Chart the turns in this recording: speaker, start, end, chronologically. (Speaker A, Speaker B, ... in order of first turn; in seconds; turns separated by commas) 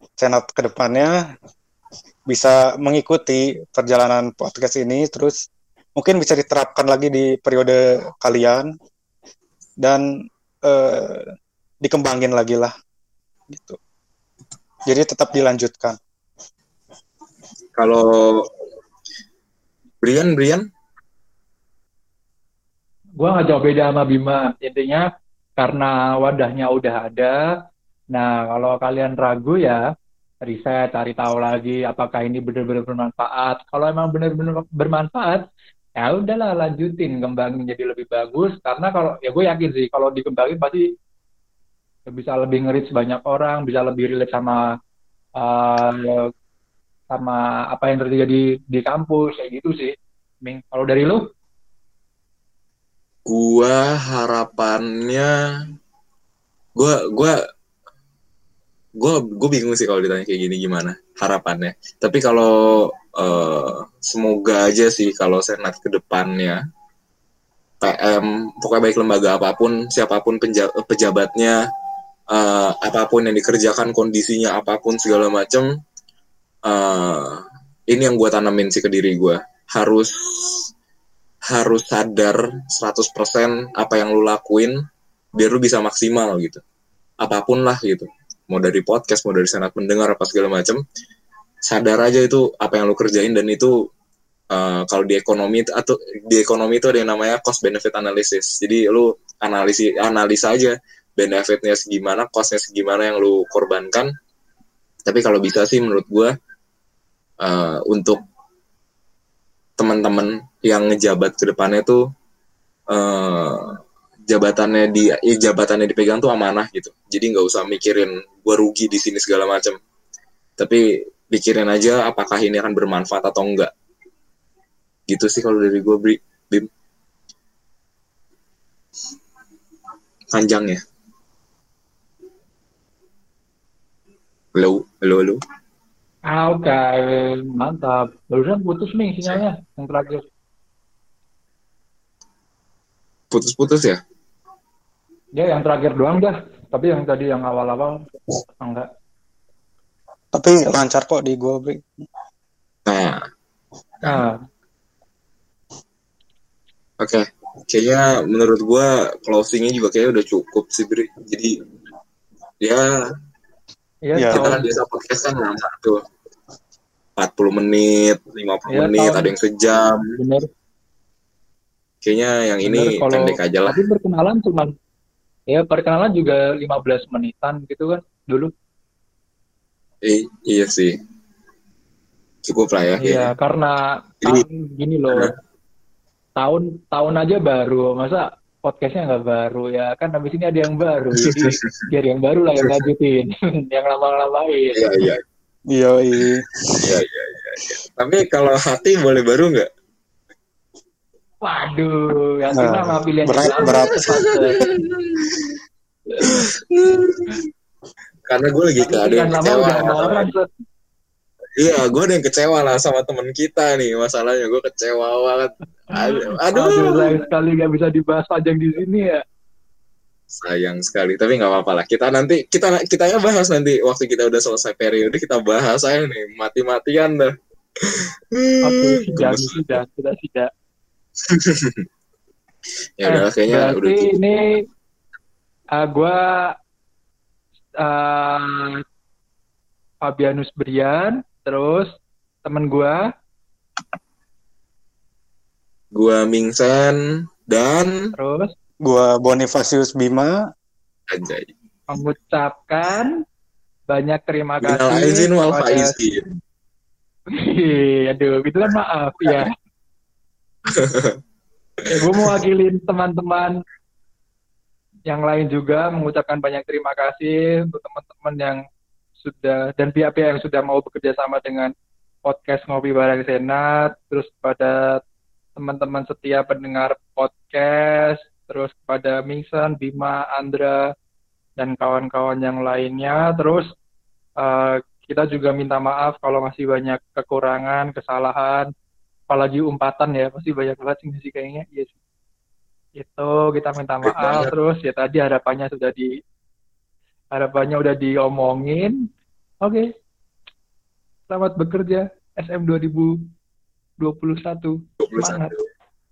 Speaker A: 0.2-1.1, Speaker A: 2.3-5.4, Speaker A: 6.0-8.7, Speaker A: 10.7-11.2, Speaker A: 11.8-12.7, Speaker A: 13.5-13.8, Speaker A: 14.9-16.0, Speaker B: 17.8-18.4, Speaker B: 20.0-20.6, Speaker C: 23.2-25.0, Speaker C: 25.6-27.4, Speaker C: 28.1-29.8, Speaker C: 30.5-35.4, Speaker C: 36.0-40.8, Speaker C: 42.1-44.6, Speaker C: 45.4-46.2, Speaker C: 47.1-51.2, Speaker B: 53.3-55.3, Speaker B: 56.8-57.3, Speaker B: 59.0-66.6, Speaker B: 67.8-71.6, Speaker B: 72.3-75.7, Speaker B: 76.7-80.6, Speaker B: 81.5-84.8, Speaker B: 85.4-86.6, Speaker B: 87.2-90.8, Speaker B: 91.7-93.7, Speaker B: 94.5-104.1, Speaker B: 105.1-106.3, Speaker B: 107.4-108.2, Speaker B: 109.8-112.0, Speaker B: 112.9-113.8, Speaker B: 114.3-119.8, Speaker B: 120.6-123.7, Speaker B: 125.1-126.7, Speaker B: 130.3-130.8, Speaker B: 134.6-135.4, Speaker C: 136.3-140.2, Speaker B: 143.3-144.0, Speaker C: 145.4-148.0, Speaker C: 148.6-148.9, Speaker A: 150.3-151.9, Speaker B: 152.9-153.2, Speaker C: 154.0-154.4, Speaker B: 157.0-161.5, Speaker C: 164.1-164.6, Speaker A: 164.2-164.5, Speaker B: 164.3-166.0, Speaker B: 167.2-170.0, Speaker C: 168.7-169.3, Speaker C: 170.2-170.5, Speaker B: 172.0-173.8, Speaker C: 172.7-174.7, Speaker C: 175.5-178.5, Speaker B: 180.0-180.9, Speaker B: 182.5-183.3, Speaker C: 183.0-185.3, Speaker C: 186.4-194.9, Speaker B: 191.4-191.7, Speaker B: 194.8-195.2, Speaker A: 195.8-196.8, Speaker B: 196.8-199.7, Speaker C: 201.4-204.6, Speaker A: 202.6-204.2, Speaker B: 203.6-205.5, Speaker B: 206.2-207.3, Speaker B: 208.3-210.3, Speaker C: 208.8-210.5, Speaker B: 211.6-217.2, Speaker C: 216.0-219.2, Speaker B: 220.4-227.3, Speaker B: 228.4-229.6, Speaker C: 228.6-230.5, Speaker B: 231.3-231.8, Speaker B: 233.0-234.1, Speaker C: 233.1-234.4, Speaker C: 235.8-236.2, Speaker C: 237.8-238.8, Speaker C: 240.0-241.9, Speaker C: 242.4-243.0, Speaker B: 245.9-247.0, Speaker B: 247.5-247.9, Speaker C: 248.2-248.5, Speaker A: 248.9-250.4, Speaker B: 251.1-251.5, Speaker C: 251.9-253.1, Speaker C: 253.9-255.9, Speaker B: 254.6-256.2, Speaker C: 257.4-259.5, Speaker B: 260.7-261.1, Speaker B: 261.8-262.3, Speaker C: 261.9-263.5, Speaker C: 265.1-268.6, Speaker C: 269.2-271.7, Speaker C: 272.2-275.0, Speaker C: 275.6-280.9, Speaker C: 281.6-283.7, Speaker C: 284.4-288.7, Speaker C: 289.3-291.9, Speaker C: 293.0-296.1, Speaker B: 294.0-294.5, Speaker C: 297.3-298.9, Speaker C: 299.6-299.9, Speaker C: 301.3-303.1, Speaker C: 304.0-305.6, Speaker B: 305.0-305.6